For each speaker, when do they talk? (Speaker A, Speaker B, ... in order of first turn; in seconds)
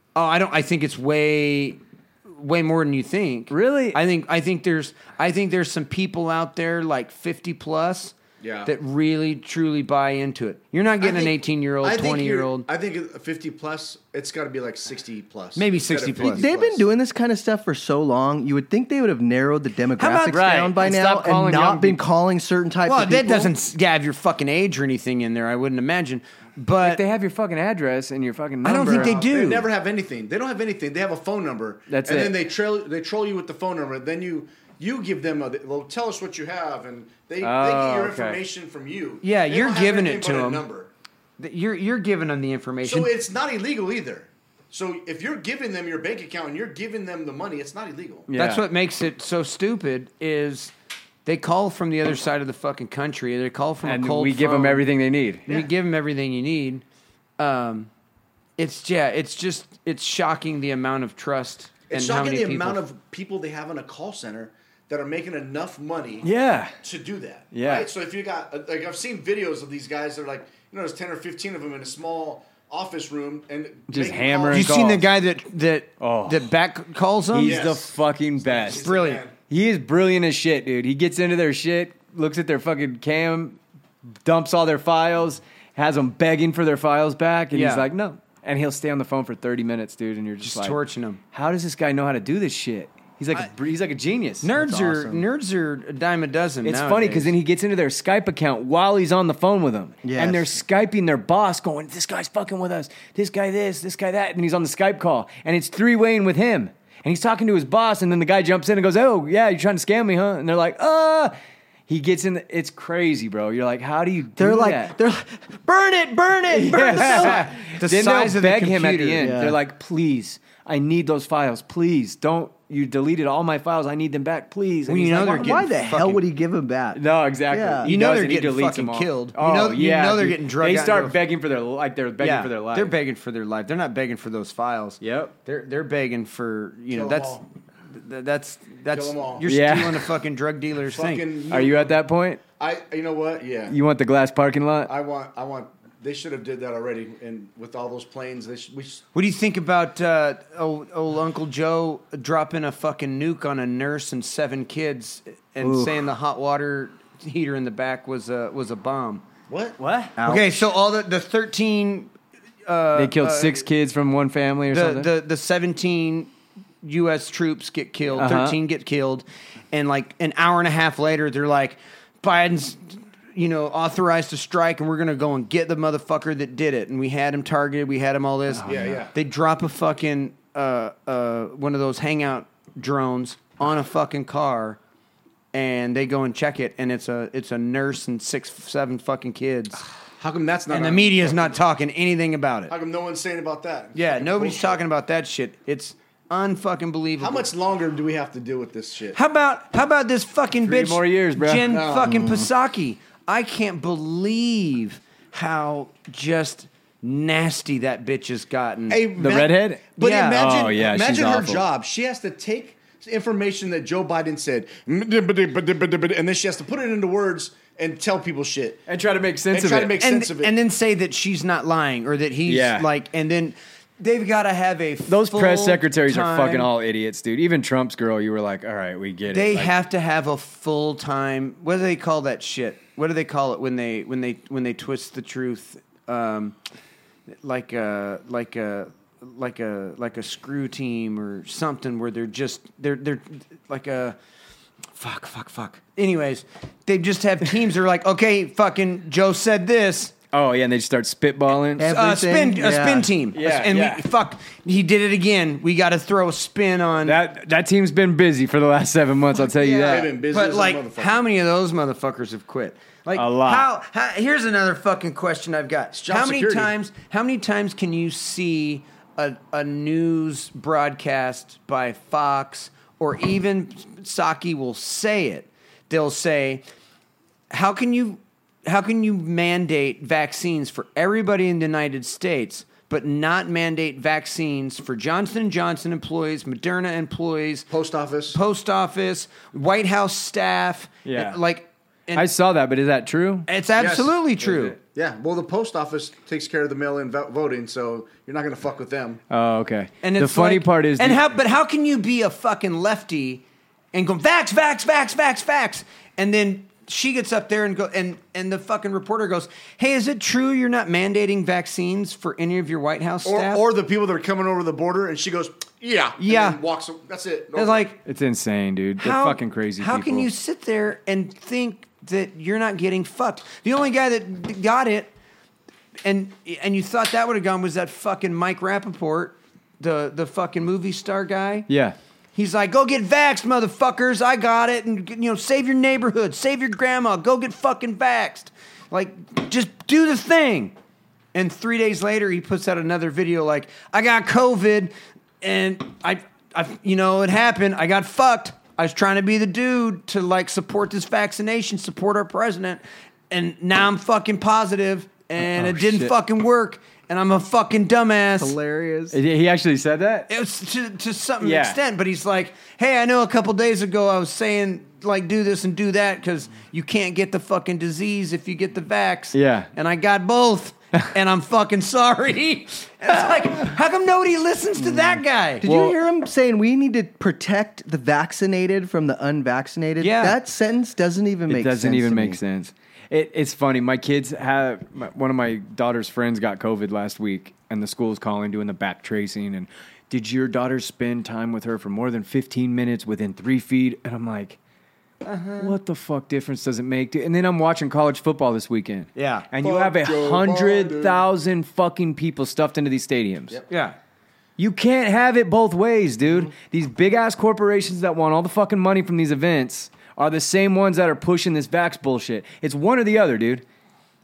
Speaker A: 0.1-12.7, 15.6-16.5, 20.0-20.5, 22.9-27.0, 28.6-29.7, 39.2-40.6, 41.4-43.1, 48.3-50.7, 51.3-54.9, 55.5-56.8, 57.4-57.9, 58.6-62.9, 74.5-77.6, 78.7-79.2, 87.5-87.9, 90.4-91.2, 94.4-97.3, 117.2-119.3, 124.9-126.2, 127.8-131.2, 132.2-141.3, 149.1-159.2, 160.2-162.1, 162.7-163.7, 164.7-166.3, 166.8-184.8, 185.5-189.8, 190.7-192.7, 193.9-197.5, 199.1-209.1, 210.0-210.5, 220.0-226.7, 229.3-236.6, 237.4-244.2, 245.0-250.1, 251.8-257.2, 259.4-276.6, 277.5-287.7, 288.3-292.3, 293.5-294.8, 300.0-303.4, 303.9-313.6, 316.2-316.6, 317.6-318.0, 319.0-325.1, 326.0-331.7, 332.4-340.8, 341.3-358.6, 360.3-375.6, 380.0-380.4, 395.2-395.8, 399.2-399.5, 403.7-404.0
Speaker B: 3.5-4.0, 20.3-22.0, 26.8-29.2, 31.9-32.4, 37.4-38.4, 48.3-48.7, 53.8-55.6, 66.2-66.8, 67.5-67.9, 73.9-75.1, 76.0-76.5, 77.3-78.8, 79.5-83.6, 84.2-90.8, 91.3-94.5, 96.6-111.3, 111.9-114.9, 116.5-125.7, 126.9-132.9, 135.0-135.3, 139.5-140.1, 141.5-142.4, 143.7-144.9, 159.8-160.2, 163.0-165.1, 168.2-168.6, 178.6-179.0, 200.7-201.8, 209.2-211.7, 218.9-220.0, 222.5-222.9, 225.1-229.7, 250.3-251.9, 253.3-254.1, 257.0-260.1, 263.1-263.7, 291.1-291.4, 292.1-293.5, 299.3-301.2, 318.1-320.3, 331.7-332.0, 355.4-356.1, 359.1-360.3, 361.4-361.8, 369.3-369.7, 375.6-376.0, 381.5-394.6, 395.6-403.6, 404.6-413.6
Speaker C: 8.4-8.7, 11.0-16.9, 28.8-40.9, 42.8-48.3, 61.9-66.3, 66.8-74.7, 77.4-79.3, 136.9-137.5, 138.9-139.5, 140.9-142.0, 142.6-143.8, 144.9-149.0, 159.5-159.8, 178.7-179.1, 190.2-191.6, 192.7-194.8, 197.2-199.2, 201.7-202.2, 208.9-218.8, 219.5-220.6, 259.8-261.2, 265.9-266.7, 287.7-288.4, 293.8-299.2, 313.2-317.9, 399.6-401.2
Speaker D: 16.3-23.5, 94.5-95.2, 100.0-100.6, 114.4-117.5, 119.2-119.6, 125.1-127.9, 155.6-156.0, 160.2-160.7, 202.1-202.5, 251.8-253.1, 358.4-359.2, 375.6-382.4